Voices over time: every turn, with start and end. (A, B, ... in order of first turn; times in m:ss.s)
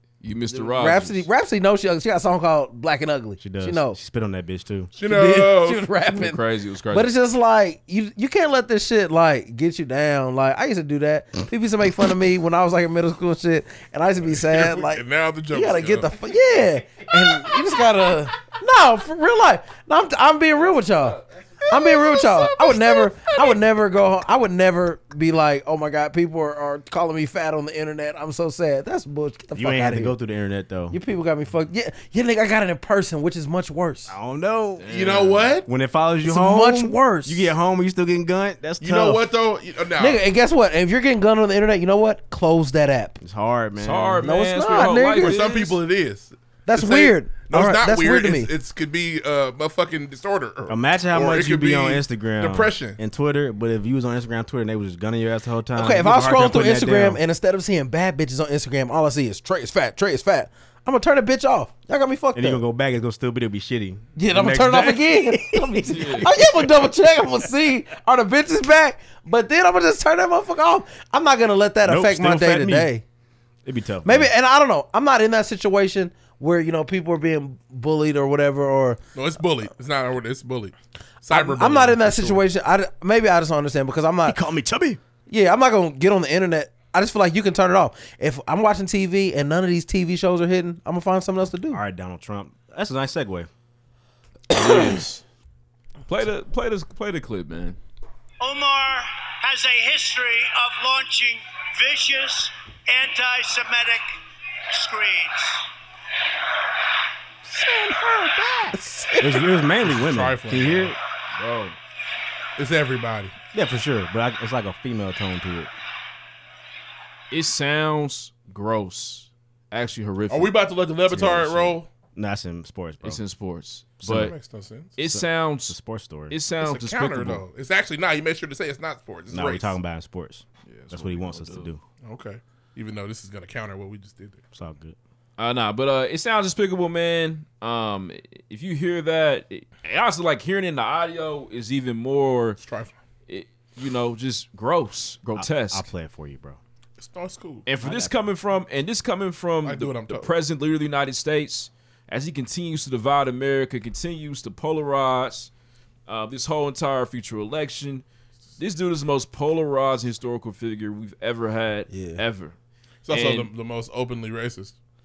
0:00.2-0:01.3 A
0:00.5-0:04.0 B
0:03.4-0:04.9 C
0:04.9-0:05.9 D
0:05.0-0:06.4 B
0:06.1-0:07.1 A
0:06.9-0:30.2 B
0:14.2-0:16.2 D
0:21.7-0:23.3 C
0:29.6-0:31.0 C
0:30.9-0:34.2 B
0:34.1-0:34.9 C
0:34.8-0:35.5 A
0:34.9-0:35.7 D
0:35.6-0:39.2 C
0:36.2-0:37.5 B
0:38.8-0:40.2 D
0:40.0-0:43.2 B
0:43.2-0:44.3 C
0:43.8-0:45.8 A
0:44.2-0:45.4 B
0:45.2-0:53.0 D
0:46.7-0:48.5 B
0:50.7-0:57.2 C
0:55.8-1:02.6 B
1:02.4-1:06.9 C
1:04.2-1:13.0 B
1:05.9-1:06.3 A
1:11.8-1:12.9 C
1:13.6-1:14.3 C
1:14.0-1:19.0 B
1:19.2-1:22.4 D
1:21.3-1:24.4 B
1:24.2-1:25.0 C
1:25.3-1:31.8 B
1:31.7-1:33.5 C
1:34.5-1:35.2 A
1:36.1-1:37.8 A
1:38.4-1:44.0 E
1:44.7-1:45.7 E
1:47.4-1:51.0 C
1:48.7-1:49.4 B
1:49.8-1:51.0 D
1:51.4-1:51.8 A
1:52.6-1:53.3 D
1:53.5-1:55.7 C
1:57.3-2:00.5 A
2:00.3-2:01.9 D
2:01.1-2:03.2 C
2:03.0-2:04.3 A
2:04.0-2:04.4 C
2:04.1-2:04.9 D
2:05.0-2:05.8 A
2:05.0-2:06.4 C
2:06.3-2:07.4 A
2:06.6-2:09.8 D
2:09.3-2:11.8 C
2:10.7-2:11.7 A
2:12.0-2:14.4 D
2:14.5-2:15.0 C
2:15.4-2:22.6 A
2:22.6-2:23.0 D
2:23.3-2:25.9 A
2:25.4-2:26.6 C
2:27.0-2:27.6 D
2:27.6-2:35.5 A
2:27.8-2:28.2 C
2:29.6-2:30.3 D
2:36.1-2:38.0 A
2:38.6-2:42.5 A
2:41.9-2:42.2 B
2:43.1-2:44.8 D
2:43.1-2:43.5 A